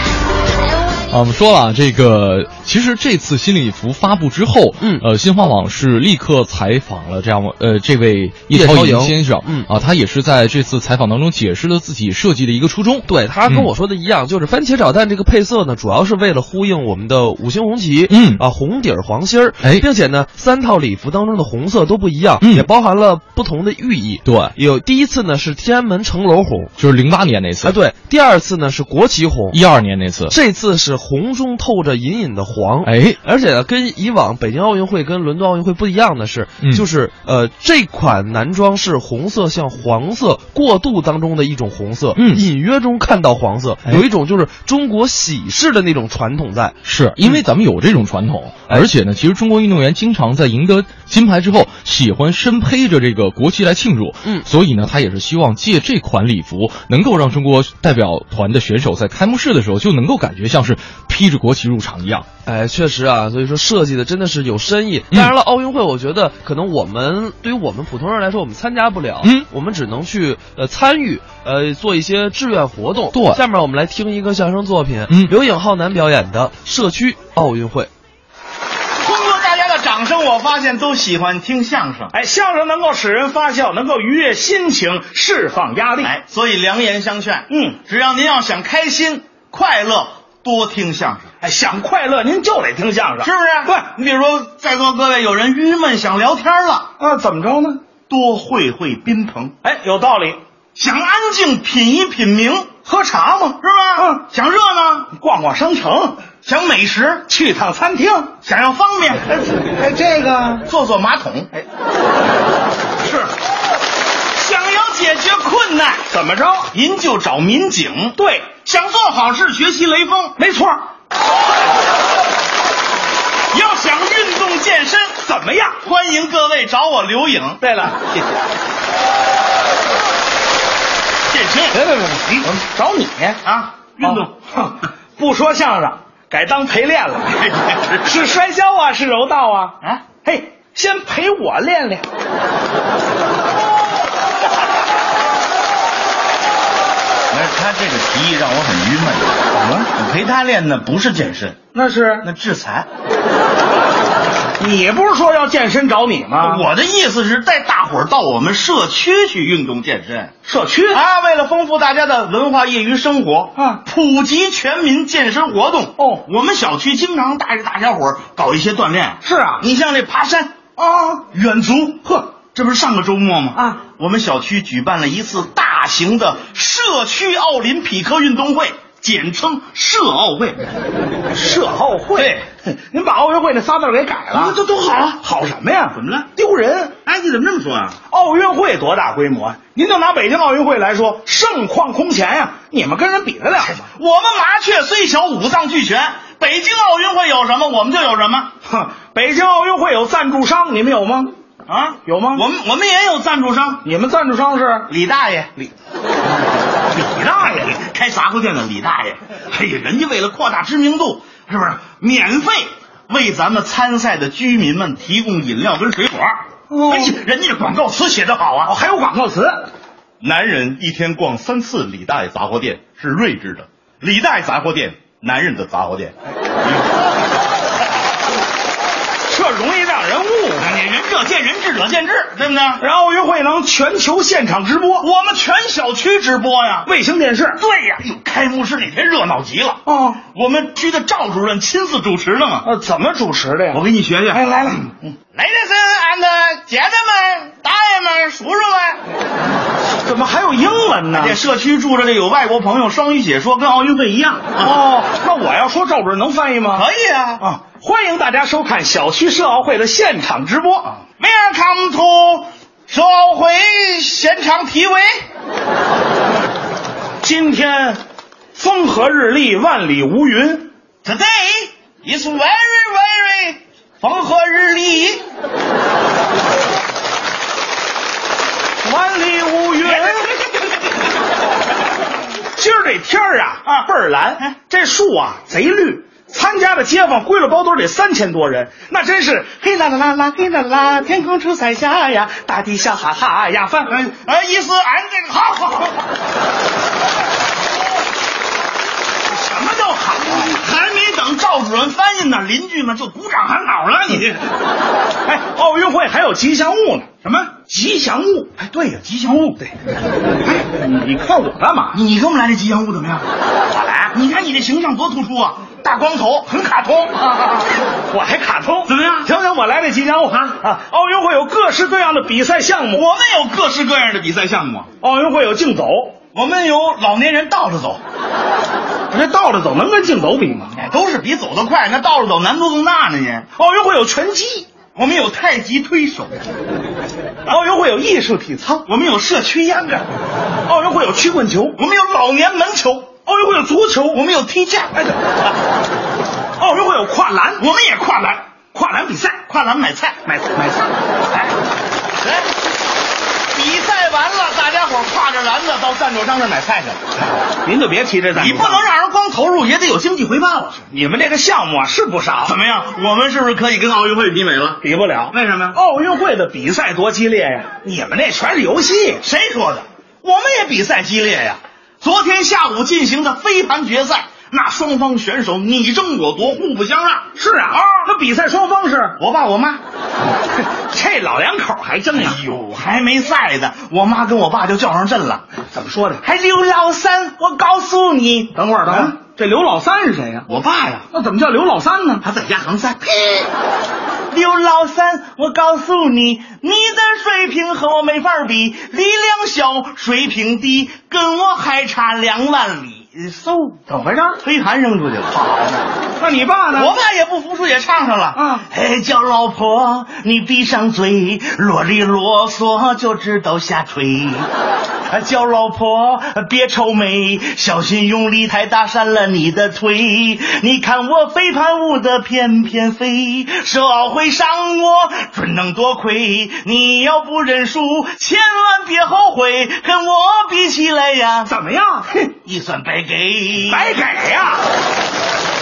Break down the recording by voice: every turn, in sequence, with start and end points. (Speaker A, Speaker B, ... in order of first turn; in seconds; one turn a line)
Speaker A: 1.1-13.7
Speaker B: 4.8-5.0
Speaker B: 8.5-9.7
Speaker B: 13.1-26.7
Speaker A: 18.1-18.4
Speaker A: 19.6-19.9
Speaker A: 22.4-22.7
Speaker A: 24.2-24.5
Speaker A: 26.8-27.8
Speaker B: 27.6-29.7
Speaker A: 29.5-30.3
Speaker B: 30.3-47.4
Speaker A: 32.8-33.2
Speaker A: 42.1-42.4
Speaker A: 46.8-62.2
Speaker B: 48.7-48.9
Speaker B: 62.5-77.9
Speaker A: 69.2-69.5
Speaker A: 73.1-73.4
Speaker A: 75.1-75.3
Speaker C: 79.0-82.1
Speaker D: 82.1-86.1
Speaker C: 86.0-91.3
Speaker D: 87.5-87.8
Speaker D: 91.4-93.9
Speaker C: 93.2-96.9
Speaker D: 97.0-97.8
Speaker C: 98.0-99.5
Speaker D: 99.6-100.4
Speaker C: 100.8-105.1
Speaker D: 102.8-104.2
Speaker D: 105.1-106.3
Speaker C: 106.3-107.3
Speaker D: 107.3-108.3
Speaker C: 108.3-109.3
Speaker D: 109.7-110.7
Speaker C: 110.6-111.6
Speaker C: 114.3-116.1
Speaker D: 116.1-116.7
Speaker C: 116.7-120.3
Speaker D: 118.2-118.5
Speaker D: 120.4-120.8
Speaker C: 123.5-125.2
Speaker D: 125.2-125.8
Speaker C: 125.8-127.6
Speaker D: 127.6-128.3
Speaker C: 131.3-131.8
Speaker D: 131.7-133.4
Speaker C: 133.4-134.3
Speaker D: 134.0-137.4
Speaker C: 137.3-138.2
Speaker D: 138.0-142.0
Speaker C: 139.8-140.2
Speaker C: 147.3-151.6
Speaker D: 149.5-149.9
Speaker D: 151.7-152.3
Speaker C: 152.2-152.9
Speaker D: 154.6-156.7
Speaker C: 156.3-160.3
Speaker D: 160.4-161.0
Speaker C: 160.9-180.6
Speaker D: 163.6-163.8
Speaker D: 166.0-166.2
Speaker D: 169.2-169.7
Speaker D: 181.3-184.6
Speaker C: 184.3-185.2
Speaker D: 185.2-187.0
Speaker C: 185.9-186.3
Speaker C: 186.9-188.0
Speaker D: 188.1-193.8
Speaker C: 193.6-198.6
Speaker D: 198.7-201.3
Speaker C: 201.7-203.8
Speaker D: 202.0-202.4
Speaker D: 203.8-204.9
Speaker C: 204.9-205.7
Speaker C: 206.9-218.7
Speaker D: 216.7-217.1
Speaker D: 218.7-219.7
Speaker C: 220.2-226.1
Speaker D: 229.3-230.7
Speaker C: 230.6-232.8
Speaker D: 232.8-235.1
Speaker C: 235.0-236.9
Speaker D: 236.8-237.6
Speaker C: 237.6-242.7
Speaker D: 239.9-240.2
Speaker D: 242.6-245.1
Speaker C: 243.7-244.4
Speaker C: 245.3-249.0
Speaker D: 250.1-251.3
Speaker C: 251.1-254.8
Speaker D: 254.6-256.8
Speaker C: 256.7-257.4
Speaker D: 257.4-261.0
Speaker C: 261.0-265.2
Speaker D: 267.2-268.0
Speaker D: 268.6-270.7
Speaker C: 271.0-275.2
Speaker D: 278.8-280.2
Speaker C: 279.8-281.0
Speaker D: 282.6-293.9
Speaker C: 293.9-295.9
Speaker C: 299.3-304.5
Speaker D: 305.2-308.6
Speaker C: 307.2-307.6
Speaker C: 308.6-309.6
Speaker D: 310.8-312.0
Speaker C: 311.9-313.3
Speaker D: 313.8-314.1
Speaker C: 313.9-317.4
Speaker D: 318.1-323.1
Speaker C: 318.9-319.3
Speaker C: 322.9-324.9
Speaker D: 325.0-326.2
Speaker C: 326.3-328.0
Speaker D: 329.1-330.8
Speaker C: 330.7-333.5
Speaker D: 333.6-334.7
Speaker C: 334.9-336.4
Speaker D: 337.5-338.8
Speaker C: 338.9-340.1
Speaker D: 340.7-341.8
Speaker C: 341.7-343.2
Speaker D: 343.2-344.2
Speaker C: 344.1-345.1
Speaker D: 346.6-347.6
Speaker C: 347.6-350.3
Speaker D: 348.7-349.4
Speaker D: 350.3-350.9
Speaker C: 352.2-352.5
Speaker C: 353.5-357.3
Speaker D: 357.6-358.8
Speaker C: 358.3-360.9
Speaker D: 360.9-362.5
Speaker C: 362.4-365.8
Speaker D: 364.8-369.2
Speaker C: 369.2-377.3
Speaker D: 377.3-379.2
Speaker C: 379.2-379.8
Speaker D: 380.8-382.4
Speaker C: 382.1-385.6
Speaker D: 385.7-386.2
Speaker C: 386.2-389.2
Speaker D: 388.8-390.5
Speaker C: 390.5-391.1
Speaker D: 391.1-392.2
Speaker C: 392.2-393.5
Speaker C: 394.3-405.9
Speaker D: 404.0-404.4
Speaker D: 406.2-406.9
Speaker C: 406.7-414.5
Speaker D: 408.3-408.6
Speaker C: 415.1-431.5
Speaker D: 431.5-432.3
Speaker C: 432.3-434.0
Speaker D: 433.7-434.6